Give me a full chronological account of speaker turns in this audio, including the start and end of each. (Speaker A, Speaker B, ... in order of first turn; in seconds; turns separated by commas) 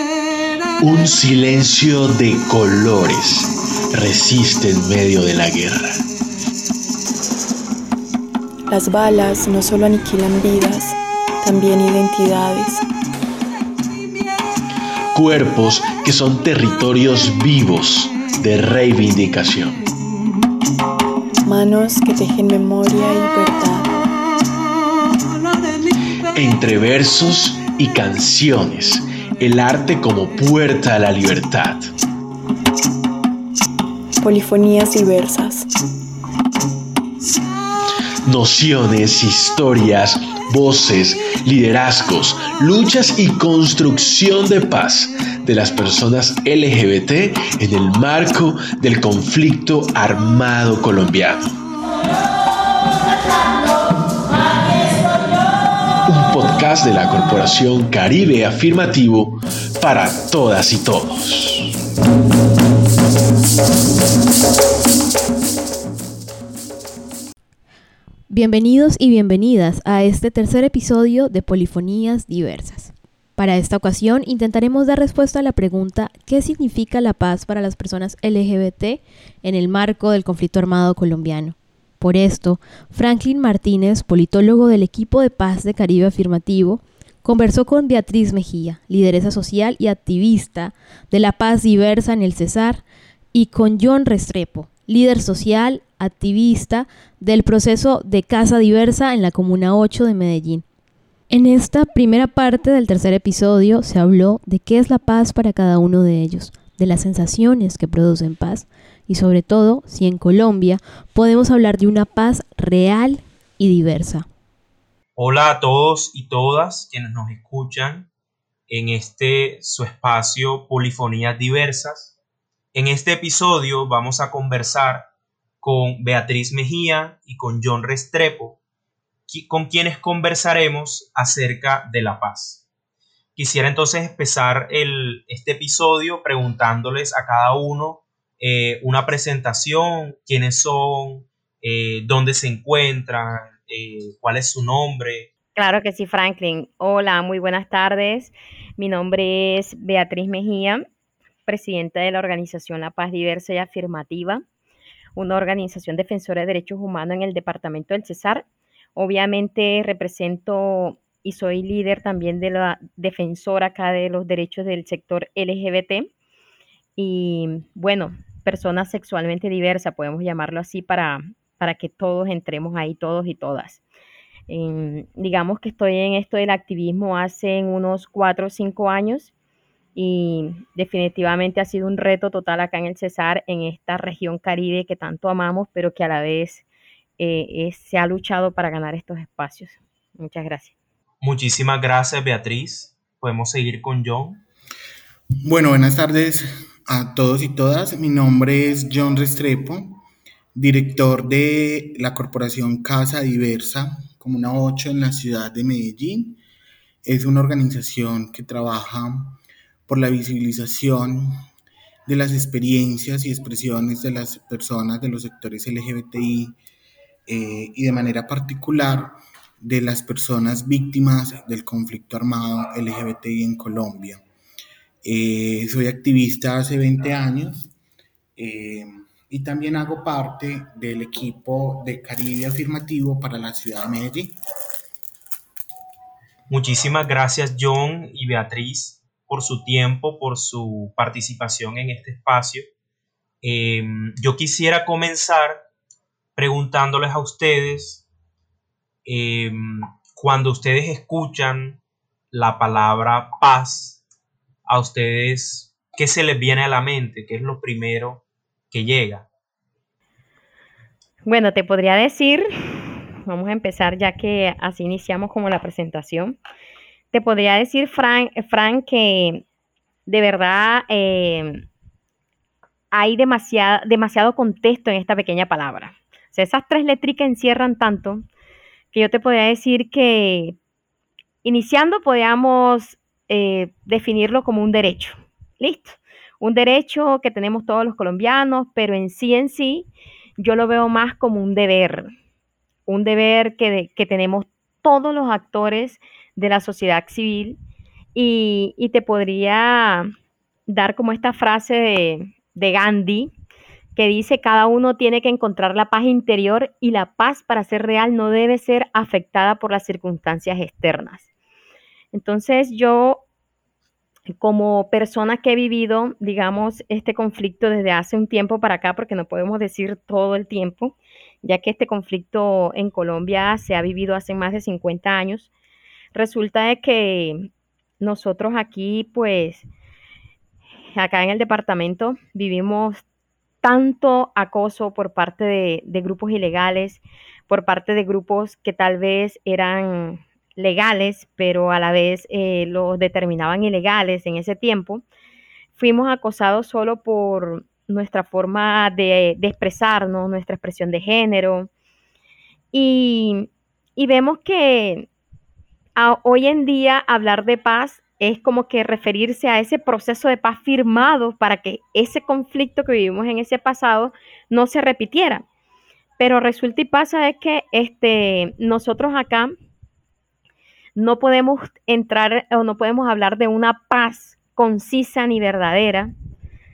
Speaker A: 0.8-6.0, Speaker B: 8.7-12.8, Speaker A: 15.1-19.8, Speaker B: 21.4-23.9, Speaker A: 26.3-31.9, Speaker B: 34.2-35.7, Speaker A: 38.2-51.5, Speaker A: 56.1-61.7, Speaker C: 68.3-100.6, Speaker C: 101.3-114.2, Speaker D: 115.2-118.1, Speaker D: 118.7-122.1, Speaker D: 122.7-125.1, Speaker D: 125.6-128.6, Speaker D: 129.3-132.6, Speaker D: 133.3-145.3, Speaker E: 145.6-150.8, Speaker E: 151.5-154.4, Speaker E: 155.2-166.1, Speaker E: 167.0-173.8, Speaker E: 174.5-179.3, Speaker E: 179.9-186.6, Speaker E: 187.2-190.7, Speaker D: 191.2-194.4, Speaker F: 195.4-200.0, Speaker F: 200.5-206.4, Speaker F: 207.0-211.3, Speaker F: 212.1-216.6, Speaker F: 217.2-224.2, Speaker F: 225.0-227.7, Speaker F: 228.3-234.4, Speaker D: 236.5-242.7, Speaker D: 243.4-245.6, Speaker D: 246.3-248.0, Speaker D: 249.0-251.8, Speaker D: 252.3-254.0, Speaker D: 254.7-259.3, Speaker E: 261.2-266.4, Speaker E: 267.1-269.4, Speaker E: 270.1-271.6, Speaker E: 272.9-278.2, Speaker E: 278.9-280.6, Speaker E: 281.4-292.1, Speaker E: 292.9-297.6, Speaker E: 298.1-300.1, Speaker E: 300.7-303.3, Speaker E: 303.9-311.3, Speaker E: 312.1-313.2, Speaker E: 314.4-325.5, Speaker E: 326.1-329.7, Speaker E: 330.9-333.0, Speaker E: 333.6-345.0, Speaker E: 345.7-351.7, Speaker E: 352.7-355.1, Speaker E: 355.9-365.4, Speaker E: 366.2-369.5, Speaker E: 370.9-376.1